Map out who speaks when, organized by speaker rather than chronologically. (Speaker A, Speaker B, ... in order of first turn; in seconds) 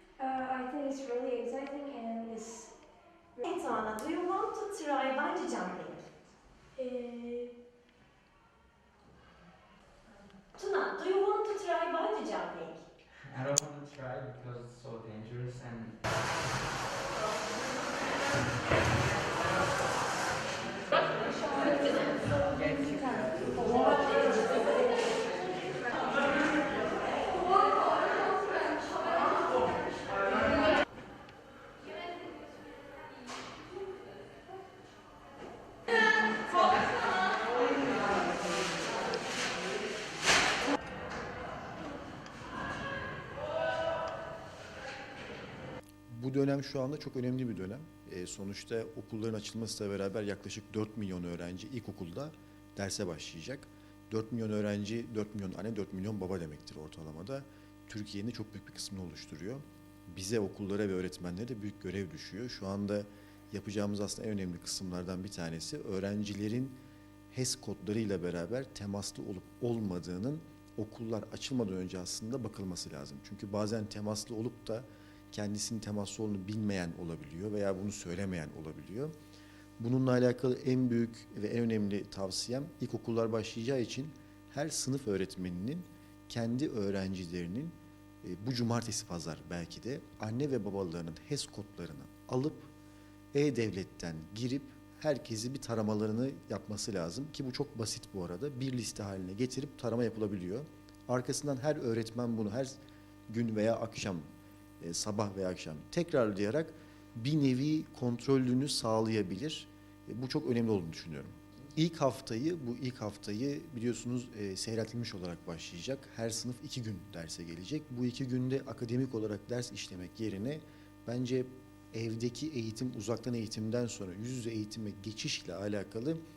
Speaker A: 0.2-2.7, 6.8-7.5
Speaker B: 3.4-6.1, 10.5-12.8
Speaker C: 13.3-15.9, 22.4-23.4
Speaker D: 46.1-66.8, 67.3-79.1, 79.8-92.7, 93.3-102.8, 103.3-104.2, 104.8-126.2